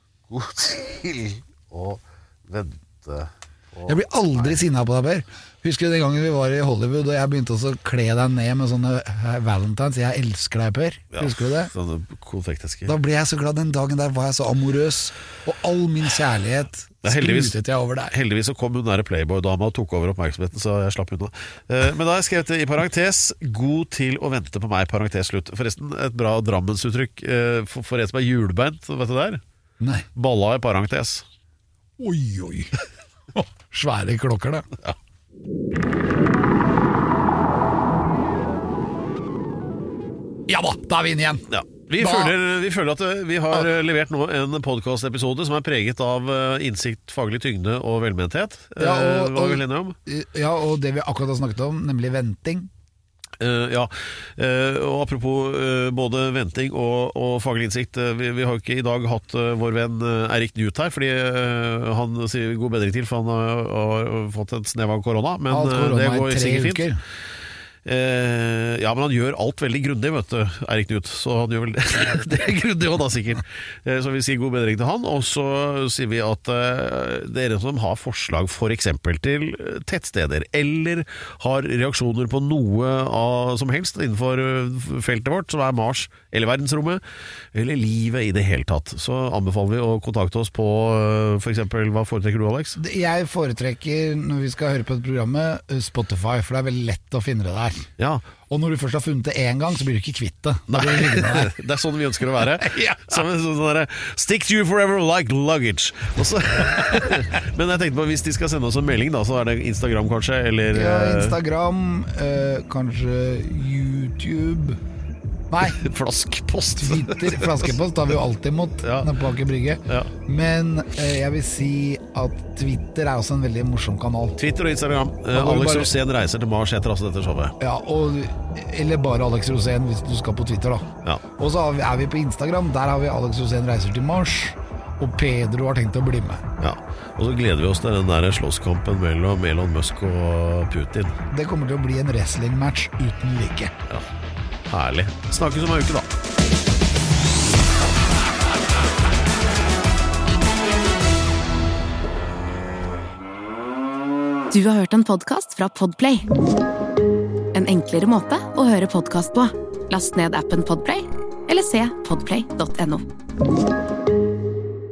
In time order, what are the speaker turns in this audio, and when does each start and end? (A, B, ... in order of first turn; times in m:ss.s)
0:00.3-0:04.6 A
0:03.9-0:11.7 B
0:11.1-0:13.0 A
0:12.9-0:18.2 B
0:17.0-0:29.4 A
0:29.8-0:30.1 B
0:30.2-0:31.2 A
0:32.0-0:32.7 B
0:33.3-0:34.7 B
0:40.5-0:41.5 B
0:41.5-0:50.0 A
0:42.0-0:42.4 B
0:48.8-0:52.7 B
0:53.4-1:06.9 A
1:05.5-1:07.0 B
1:07.8-1:27.0 A
1:27.5-1:32.8 A
1:32.8-1:37.9 B
1:38.0-1:38.2 A
1:38.5-1:41.5 B
1:40.7-1:51.4 A
1:42.5-1:43.2 B
1:50.7-1:54.8 B
1:55.5-1:55.8 B
1:55.6-1:57.7 A
1:56.8-2:04.4 B
1:58.8-1:59.1 A
2:04.4-2:07.6 A
2:05.3-2:05.9 B
2:07.6-2:16.5 B
2:16.6-2:21.2 A
2:21.3-2:23.8 B
2:24.7-2:26.1 A
2:34.5-2:36.2 C
2:37.5-2:43.0 C